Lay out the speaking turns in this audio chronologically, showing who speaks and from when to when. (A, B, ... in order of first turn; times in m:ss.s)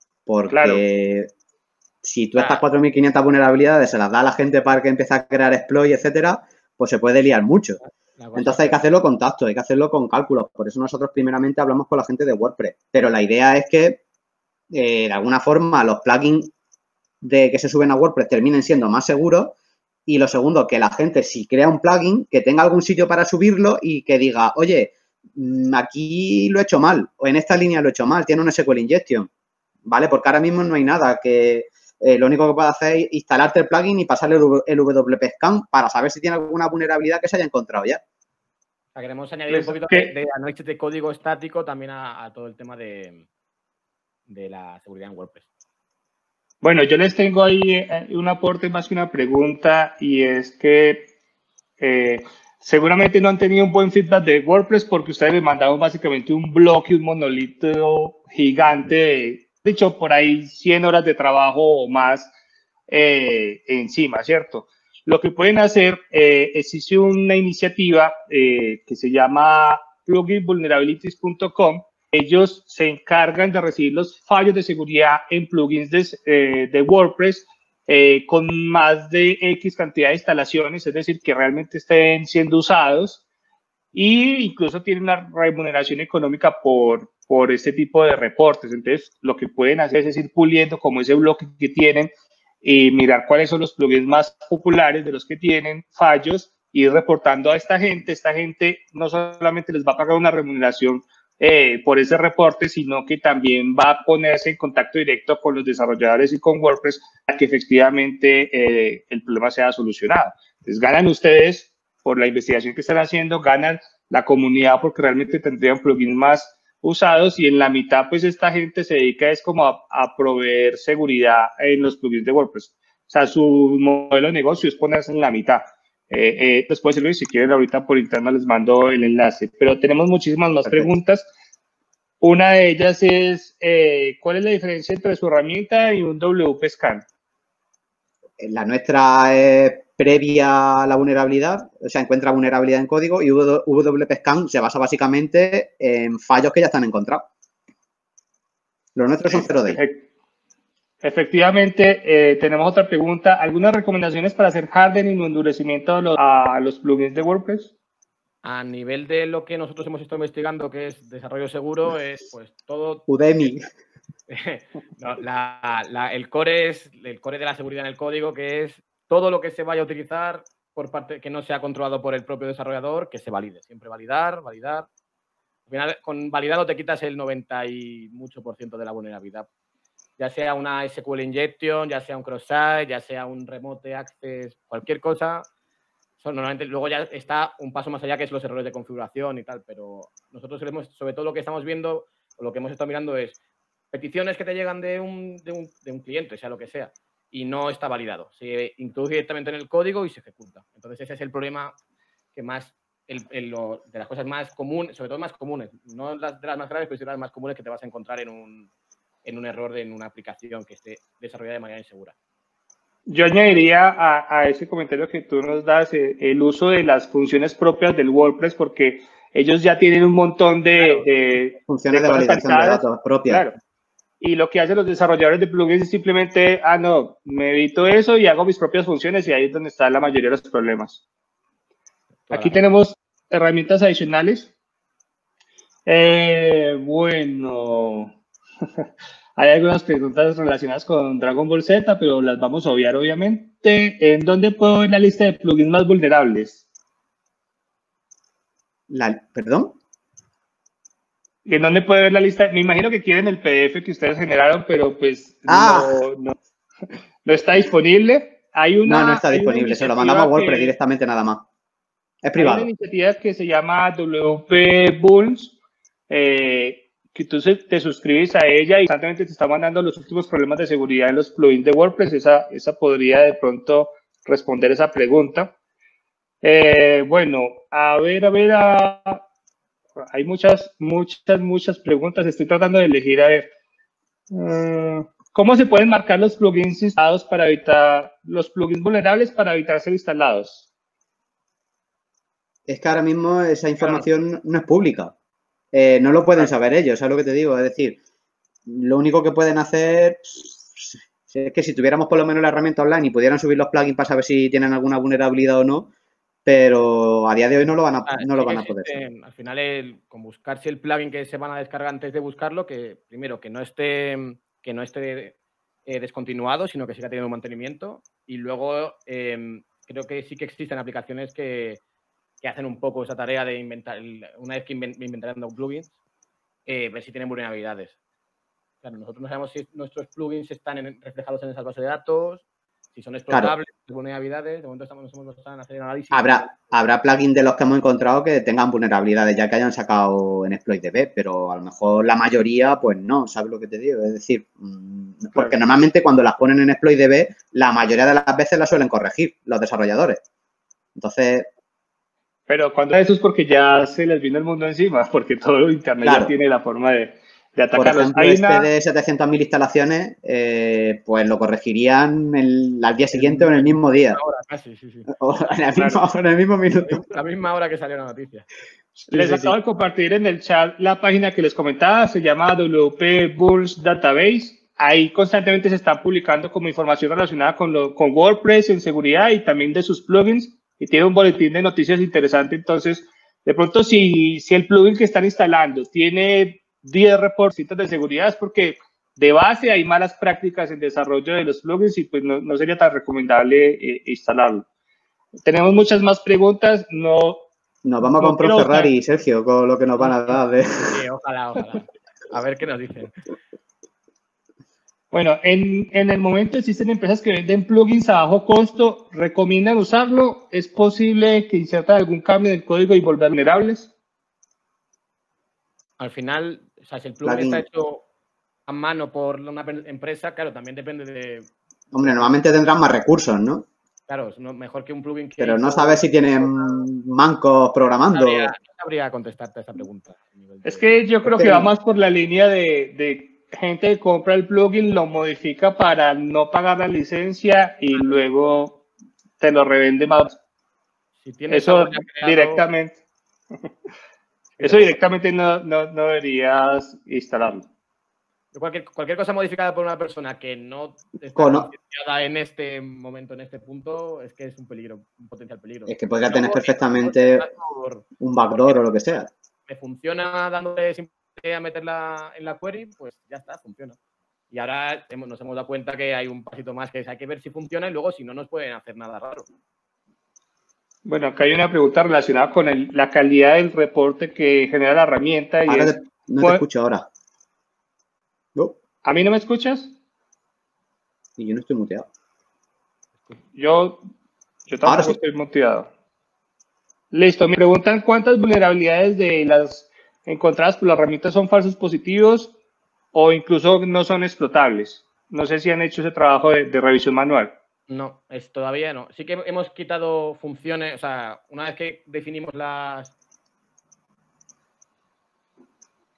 0:00.3-0:01.3 A
0:00.5-0:00.8 B
0:02.0-0:07.8 A
0:02.4-0:02.6 C
0:07.8-0:08.7 C
0:08.4-0:14.0 A
0:14.7-0:16.5 A
0:17.2-0:19.5 A
0:20.1-0:29.3 A
0:29.9-0:38.0 A
0:38.9-0:43.2 C
0:39.5-0:40.1 B
0:44.3-0:45.4 C
0:46.6-0:51.1 B
0:51.8-1:02.3 B
1:02.9-1:23.2 B
1:23.9-1:32.1 B
1:32.6-2:11.3 B
2:10.6-2:10.9 A
2:12.2-2:17.0 B
2:18.4-2:27.2 A
2:29.0-2:29.8 A
2:29.3-2:30.1 B
2:31.0-2:37.7 B
2:38.4-2:43.6 C
2:43.1-2:43.7 A
2:44.3-2:54.9 C
2:55.7-2:59.5 C
3:00.2-3:05.4 C
3:06.2-3:13.4 C
3:13.9-3:21.8 C
3:22.3-3:28.7 C
3:29.2-3:32.1 C
3:33.1-3:43.5 B
3:40.8-3:41.0 C
3:41.7-3:43.5 A
3:44.2-3:51.0 B
3:52.3-3:52.6 C
3:52.3-3:54.5 B
3:55.8-3:58.1 B
3:59.4-4:06.6 B
4:08.9-4:09.8 A
4:11.4-4:16.4 B
4:15.5-4:16.0 A
4:17.2-4:20.7 B
4:18.8-4:21.4 A
4:22.2-4:22.7 A
4:22.3-4:25.6 B
4:26.1-4:35.5 B
4:36.4-4:39.2 B
4:40.0-4:43.5 B
4:44.3-4:50.7 B
4:52.7-4:55.1 A
4:53.8-4:54.0 B
4:55.7-4:58.0 A
4:58.7-5:05.9 A
5:06.4-5:09.0 A
5:08.0-5:21.8 C
5:22.4-5:25.9 C
5:26.7-5:28.0 C
5:28.8-5:36.7 C
5:33.3-5:33.5 A
5:36.1-5:50.2 A
5:51.0-5:51.5 A
5:52.5-5:58.7 B
5:56.0-5:56.3 A
5:57.8-6:04.2 A
6:03.1-6:05.1 C
6:05.1-6:07.0 A
6:05.8-6:06.0 B
6:06.8-6:08.5 C
6:09.0-6:09.5 C
6:09.1-6:34.6 B
6:35.4-6:37.5 B
6:37.8-6:41.0 A
6:38.0-6:38.9 B
6:40.0-6:43.1 C
6:45.1-6:53.9 B
6:56.0-6:58.0 C
6:57.2-6:57.6 A
6:58.7-7:02.3 C
7:01.9-7:03.6 A
7:04.1-7:06.8 C
7:05.4-7:08.5 A
7:08.1-7:10.9 C
7:10.6-7:18.8 B
7:11.2-7:11.7 A
7:19.4-7:20.4 B
7:21.2-7:22.6 C
7:21.5-7:23.0 B
7:24.5-7:24.9 C
7:24.6-7:27.6 B
7:28.5-7:44.0 C
7:31.4-7:31.7 A
7:35.9-7:37.4 A
7:38.2-7:39.3 A
7:44.5-7:49.4 C
7:51.0-7:56.6 B
7:55.7-7:57.1 A
7:59.0-7:59.9 B
8:01.4-8:02.0 A
8:03.5-8:04.0 B
8:04.7-8:05.9 B
8:04.8-8:05.2 A
8:07.1-8:12.5 B
8:13.1-8:17.5 B
8:17.9-8:23.1 C